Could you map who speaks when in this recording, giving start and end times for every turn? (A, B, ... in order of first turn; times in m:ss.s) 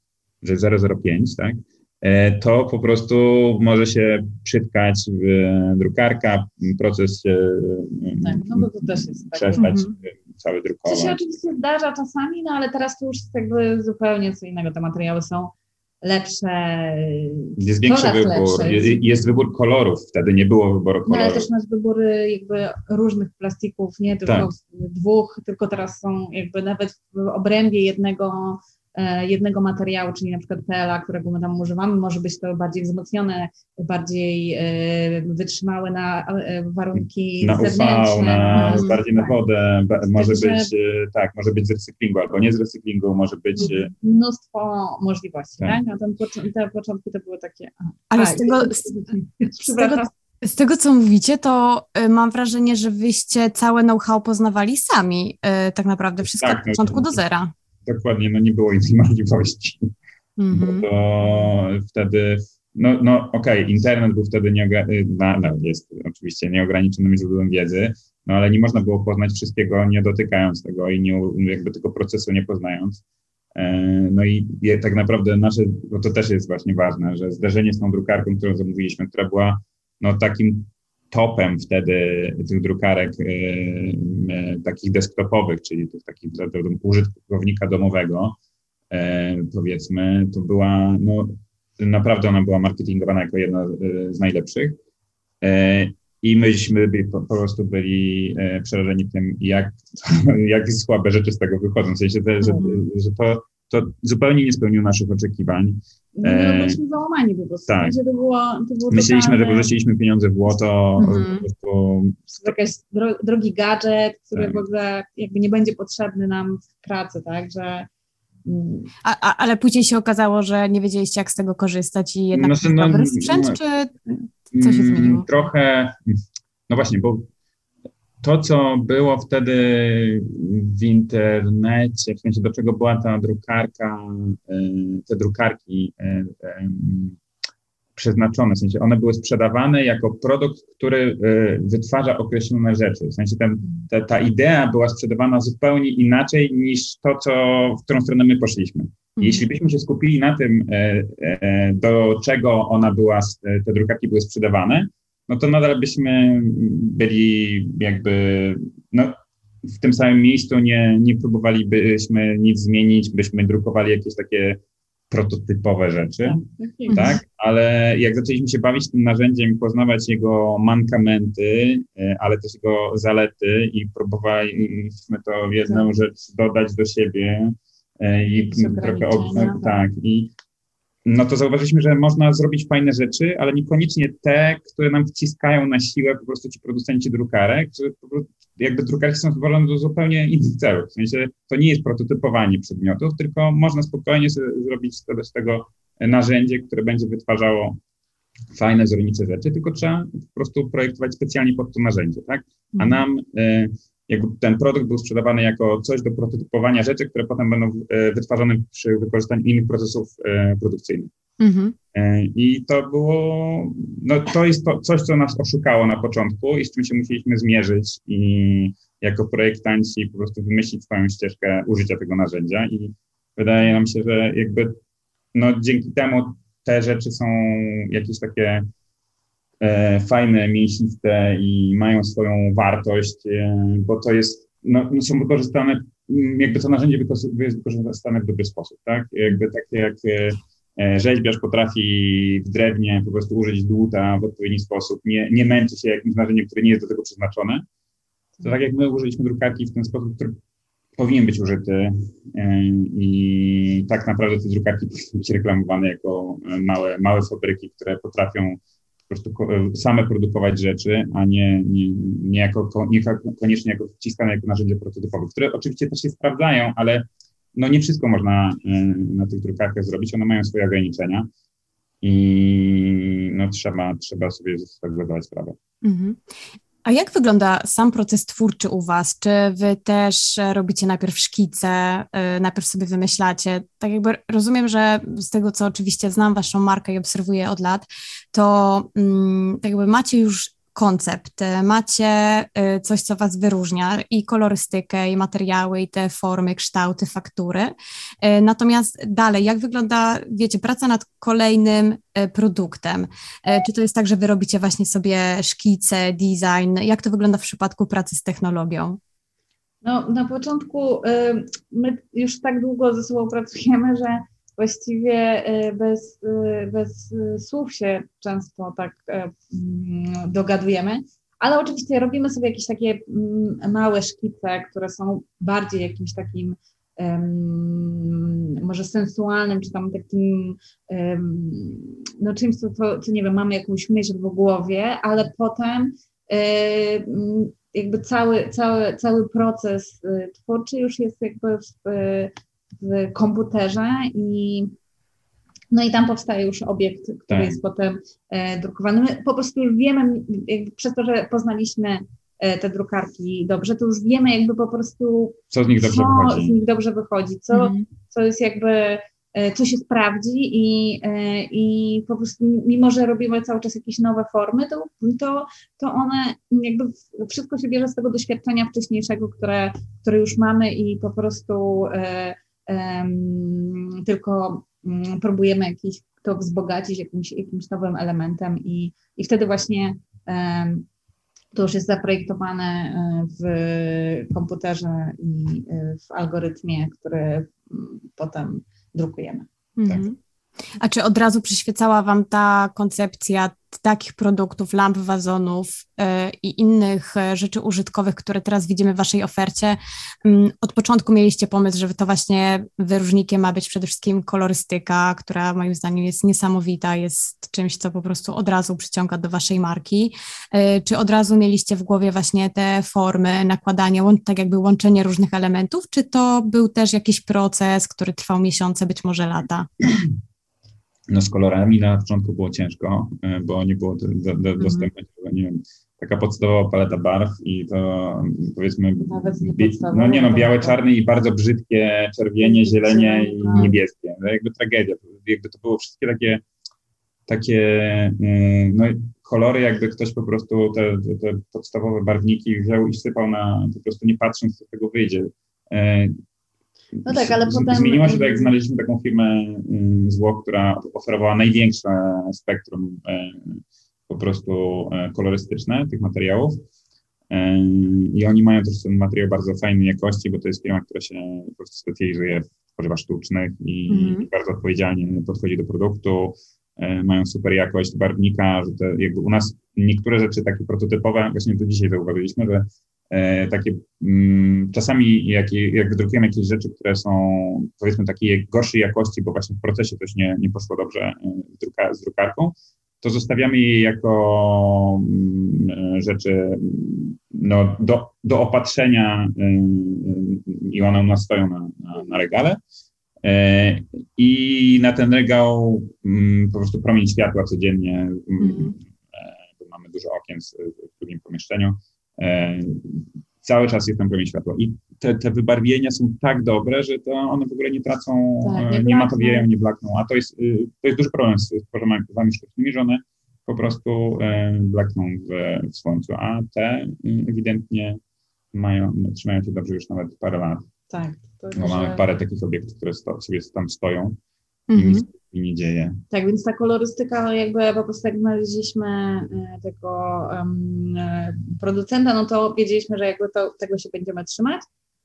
0:00.4-0:11.2 A
0:08.2-0:09.7 B
0:09.6-0:09.9 C
0:10.8-0:19.4 B
0:17.6-0:21.5 A
0:21.0-0:39.4 B
0:36.9-0:43.9 A
0:38.6-0:39.0 C
0:40.1-0:40.7 B
0:43.6-0:50.1 B
0:48.1-0:48.9 C
0:49.6-0:57.5 C
0:56.3-0:57.2 A
0:57.8-0:59.9 A
1:00.4-1:00.9 C
1:00.5-1:13.0 A
1:13.5-1:28.4 A
1:28.9-1:34.8 A
1:35.4-1:46.8 A
1:42.4-1:42.8 C
1:46.2-1:49.7 B
1:47.7-1:48.0 A
1:48.9-1:52.5 A
1:51.0-1:51.4 C
1:52.3-1:57.9 B
1:54.3-1:54.6 A
1:58.4-1:58.9 B
1:59.0-2:05.3 C
2:02.3-2:03.6 A
2:04.5-2:06.2 A
2:06.7-2:07.3 A
2:08.2-2:17.2 A
2:18.0-3:00.3 A
2:29.2-2:29.4 C
2:46.2-2:47.2 B
2:46.9-2:47.2 C
2:58.3-2:59.8 B
3:01.0-3:17.8 A
3:18.5-3:31.1 A
3:22.8-3:23.0 C
3:31.4-3:31.8 C
3:31.9-3:44.8 A
3:45.3-3:48.6 A
3:49.6-4:07.6 A
4:08.4-4:10.4 A
4:11.0-4:31.3 A
4:32.0-4:35.6 A
4:35.8-4:36.2 C
4:36.8-5:09.0 C
5:09.8-5:44.7 B
5:45.7-6:20.8 B
5:47.3-5:47.6 A
5:55.5-5:56.6 A
5:57.5-5:57.8 C
6:21.5-6:30.0 B
6:29.8-6:30.2 C
6:30.8-6:59.7 C
7:01.1-7:16.4 A
7:09.0-7:10.8 B
7:12.4-7:13.8 B
7:17.3-7:26.1 A
7:27.0-7:28.5 B
7:27.1-7:36.6 A
7:37.3-8:12.6 A
7:43.9-7:44.3 C
8:13.2-8:38.0 A
8:18.4-8:18.7 C
8:28.4-8:29.5 B
8:38.5-8:40.6 A
8:40.9-8:42.0 B
8:41.5-8:44.2 A
8:44.7-8:45.0 C
8:44.7-8:46.0 A
8:46.1-8:54.6 B